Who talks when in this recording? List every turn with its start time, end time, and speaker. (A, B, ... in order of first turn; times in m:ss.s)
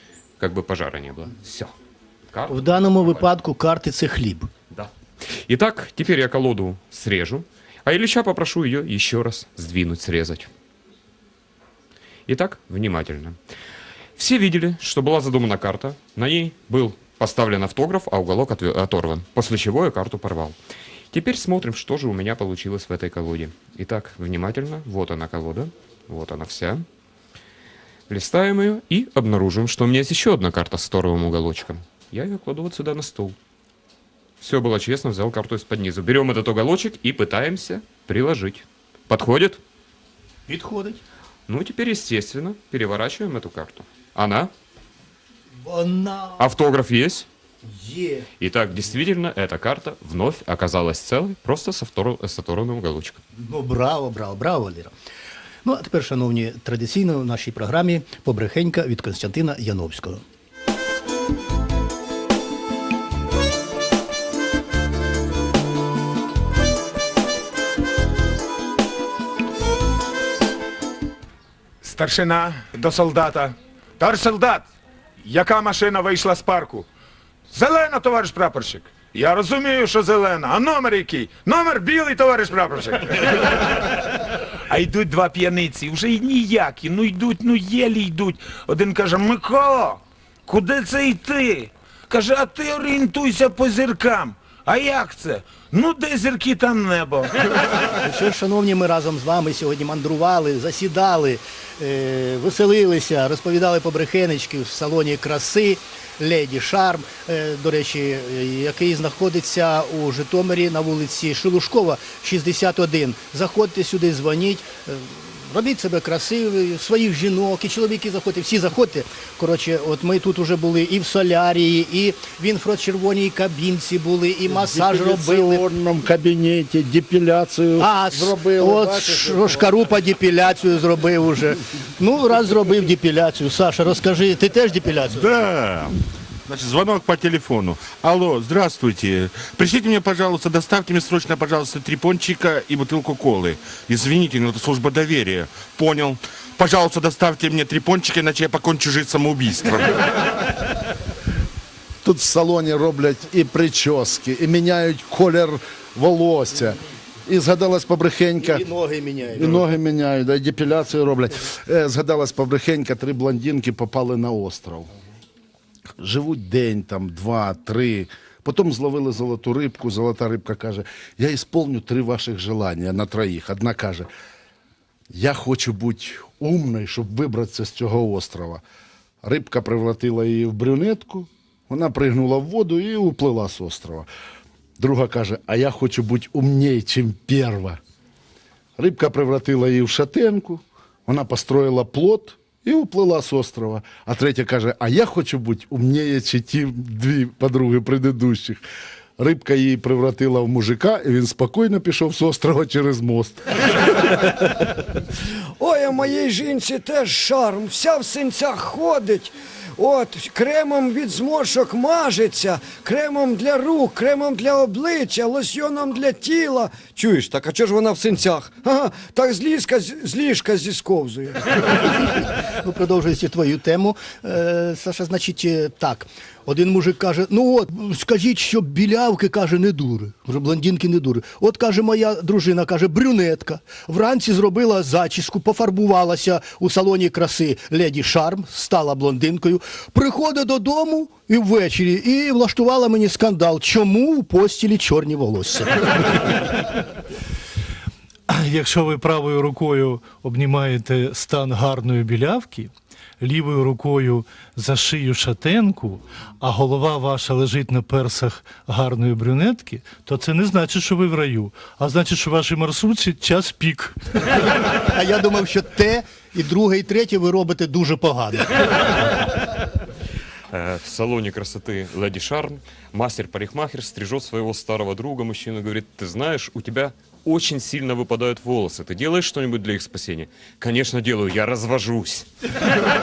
0:00.4-0:01.7 A
0:02.3-0:03.2 A
0:02.5-0:04.5 B
0:04.7-0:10.5 A
0:12.3-0:13.4 A
0:14.2-0:20.6 A
0:21.1-0:26.8 A
0:28.1-0:33.4 A
0:34.4-0:39.6 A
0:40.5-0:41.0 B
0:41.5-0:44.5 A
0:45.6-0:46.4 B
0:46.4-0:47.3 A
0:47.6-0:48.3 B
0:48.4-0:53.2 A
0:53.4-0:54.9 B
0:55.6-1:00.2 B
1:11.8-1:14.7 C
1:15.2-1:16.9 C
1:17.5-1:24.0 C
1:24.7-1:37.4 C
1:38.0-2:05.6 B
2:04.5-2:09.7 D
2:07.8-2:15.4 B
2:15.1-2:30.2 E
2:32.0-2:38.6 D
2:38.4-2:39.6 B
2:39.3-2:44.9 D
2:46.0-2:54.1 D
2:55.1-2:58.6 D
2:59.2-3:04.1 D
3:04.8-3:07.8 D
3:08.8-3:18.6 D
3:19.2-3:24.0 D
3:25.6-3:41.4 F
3:41.8-4:06.6 B
4:08.3-4:24.0 G
4:24.8-4:29.3 B
4:30.5-4:42.3 A